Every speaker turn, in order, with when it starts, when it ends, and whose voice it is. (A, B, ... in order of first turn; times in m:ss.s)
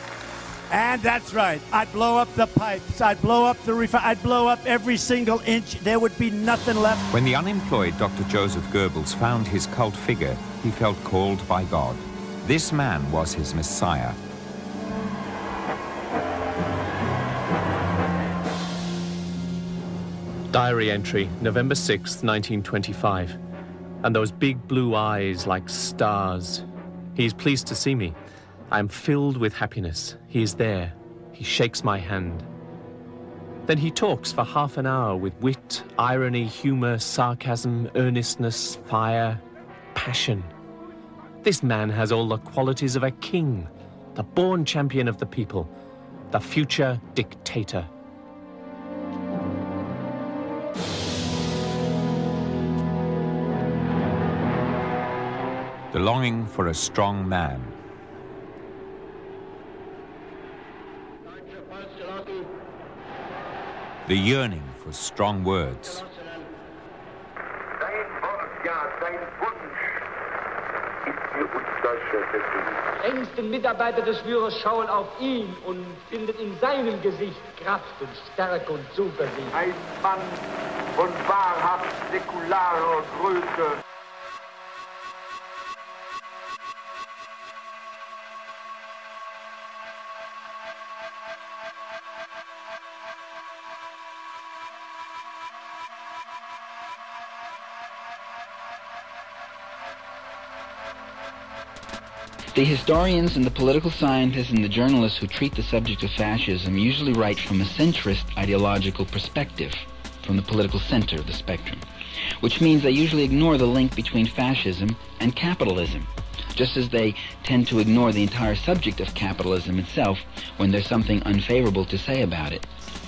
0:00.7-0:07.0 A
0:07.1-0:14.2 B
0:20.5-0:23.4 C
0:24.0-0:26.6 C
0:27.2-0:28.2 C
0:28.7-0:32.5 C
0:33.7-0:39.4 C
0:39.9-0:40.5 C
0:41.4-0:45.7 C
0:46.3-0:47.9 C
0:55.9-0:57.7 B
1:04.0-1:06.0 B
1:07.8-1:09.5 D
1:11.8-1:12.6 D
1:13.3-1:14.4 E
1:16.4-1:16.9 E
1:18.4-1:19.2 E
1:19.6-1:20.1 D
1:42.5-1:51.8 F
1:52.4-2:02.6 F